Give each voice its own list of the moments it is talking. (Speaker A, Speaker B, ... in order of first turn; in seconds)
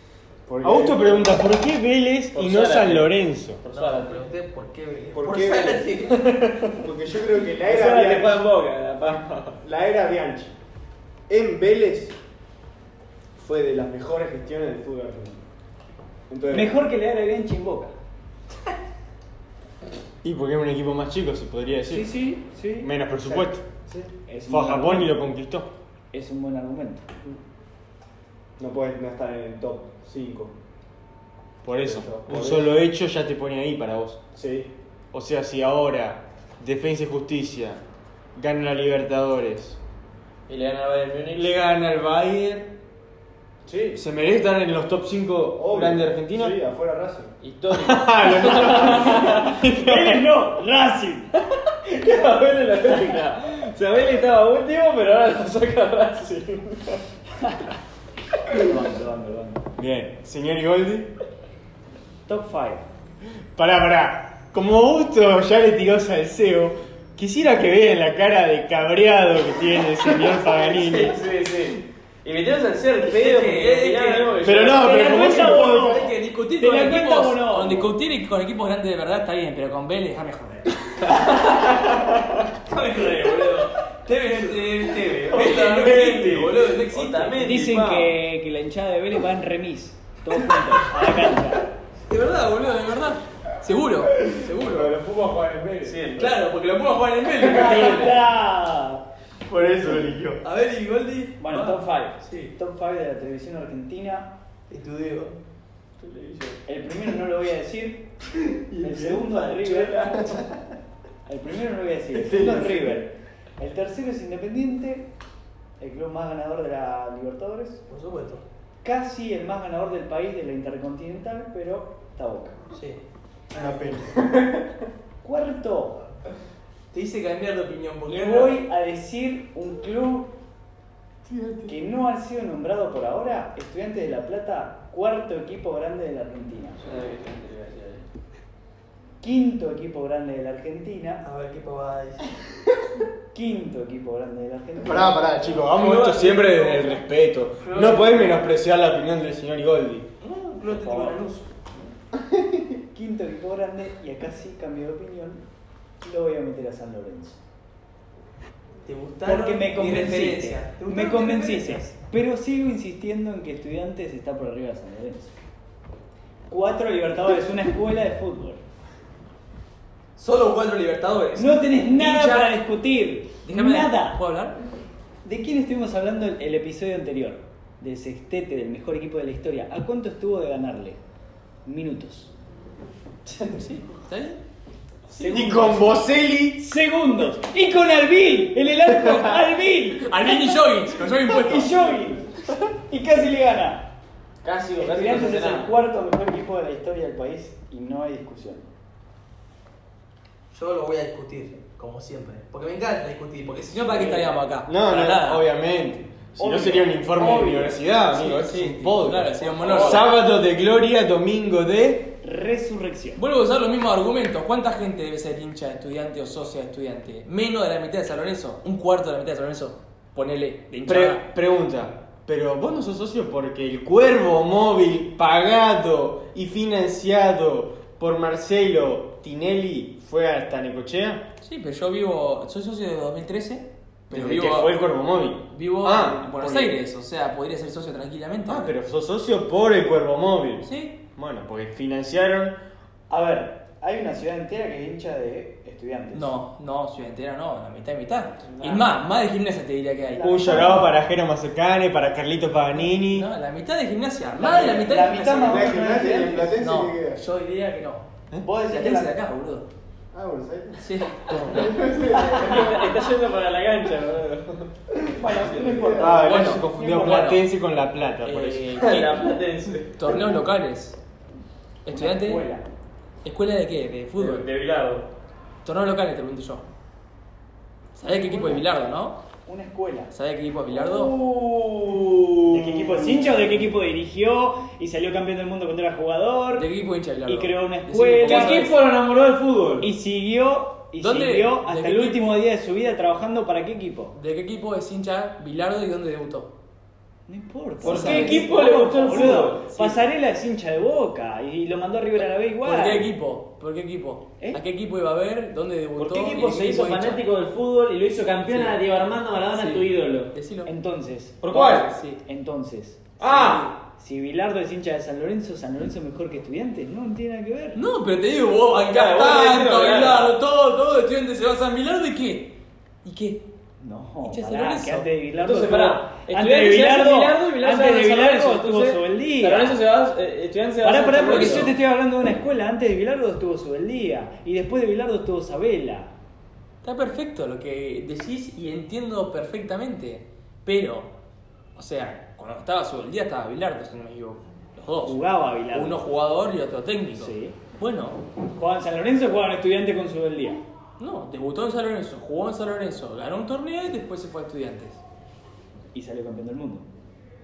Speaker A: 0.5-1.4, 5.2-6.0, 6.8-8.5, 9.6-10.6, 11.3-12.2, 13.4-15.4, 16.3-16.8, 23.2-24.1, 28.6-30.5, 31.7-32.7, 34.4-34.7, 43.7-44.0, 45.5-47.3, 94.3-96.1, 109.0-110.4, 112.2-113.0, 255.4-257.2, 260.1-263.0, 265.2-266.3
Speaker B: 0.6-3.6, 20.2-22.1, 22.8-23.6, 24.5-25.7, 31.6-34.2, 35.1-37.8, 38.4-39.8, 41.4-42.7, 44.0-46.6, 47.7-50.2, 59.8-61.1, 63.6-71.2, 74.4-76.0, 99.5-100.4, 123.5-124.6, 131.3-131.8, 144.8-150.1, 185.2-186.6, 204.7-212.1, 220.9-231.3, 234.1-236.7, 238.5-242.6, 250.2-253.3, 266.0-268.8
Speaker C: 2.3-4.3, 6.1-6.8, 7.6-9.6, 40.5-41.5, 47.4-49.6, 51.7-57.0, 70.2-75.0, 81.1-82.0, 84.9-88.1, 95.8-96.3, 106.0-106.6, 136.8-138.1, 194.4-195.7, 209.6-210.0, 248.5-248.8, 262.3-264.7, 265.3-265.9, 268.2-270.2, 274.2-275.1, 280.9-283.4, 288.2-289.9, 297.8-299.7, 306.0-310.3, 311.4-311.9, 313.3-313.6, 318.9-320.4, 325.4-331.7
Speaker D: 3.7-6.4, 73.0-74.4, 74.9-81.7, 82.7-87.5, 92.1-94.9, 96.2-98.2, 100.4-102.5, 104.7-105.4, 117.9-118.4, 122.7-123.0, 126.9-128.6, 141.2-142.2, 145.6-147.0, 147.6-148.4, 150.2-151.5, 158.8-161.9, 170.2-172.6, 173.4-174.6, 183.4-184.4, 185.2-185.6, 190.0-191.9, 200.5-205.4, 208.1-210.1, 213.2-221.2, 231.4-234.8, 235.5-238.7, 240.6-241.0, 246.1-250.7, 252.8-255.8, 256.6-258.1, 258.6-259.7, 260.8-261.8, 266.2-267.4, 268.7-271.0, 271.9-272.4, 273.2-274.4, 275.6-276.7, 277.9-279.2, 280.1-281.2, 286.6-288.8, 291.0-292.4, 294.1-296.5, 297.8-298.5, 299.7-300.0, 302.6-307.2, 308.5-308.8, 309.5-310.7, 311.5-312.2, 313.2-313.7, 317.8-323.4, 324.2-325.1, 331.2-331.8, 336.8-341.1, 341.8-345.2, 345.7-348.2, 351.0-355.0
Speaker E: 16.5-17.9, 21.9-22.9, 24.3-25.2, 26.1-27.1, 49.2-51.3, 57.4-57.7, 58.5-59.6, 62.3-62.9, 74.7-77.9, 87.4-91.7, 97.5-99.0, 101.4-104.3, 106.7-108.1, 108.8-110.3, 111.3-115.1, 115.8-117.8, 118.8-122.6, 125.2-126.0, 128.1-130.3, 131.7-136.9, 139.2-141.2, 143.3-145.6, 152.9-155.4, 156.0-157.4, 159.2-165.4, 166.5-168.6, 171.4-174.2, 175.2-181.0, 181.7-182.3, 185.1-186.0, 186.6-190.6, 191.3-193.9, 194.8-198.7, 203.9-204.2, 206.4-207.8, 212.2-213.2, 243.1-246.3, 250.1-250.9, 254.3-256.6, 258.4-259.1, 262.1-262.6, 265.1-267.2, 271.9-272.6, 278.1-278.6, 279.5-280.1, 282.5-286.7, 287.3-288.7, 289.8-294.2, 297.3-303.1, 310.7-317.8, 323.8-329.8, 330.8-336.1, 345.0-346.0, 347.1-347.6, 348.6-350.6, 355.9-356.9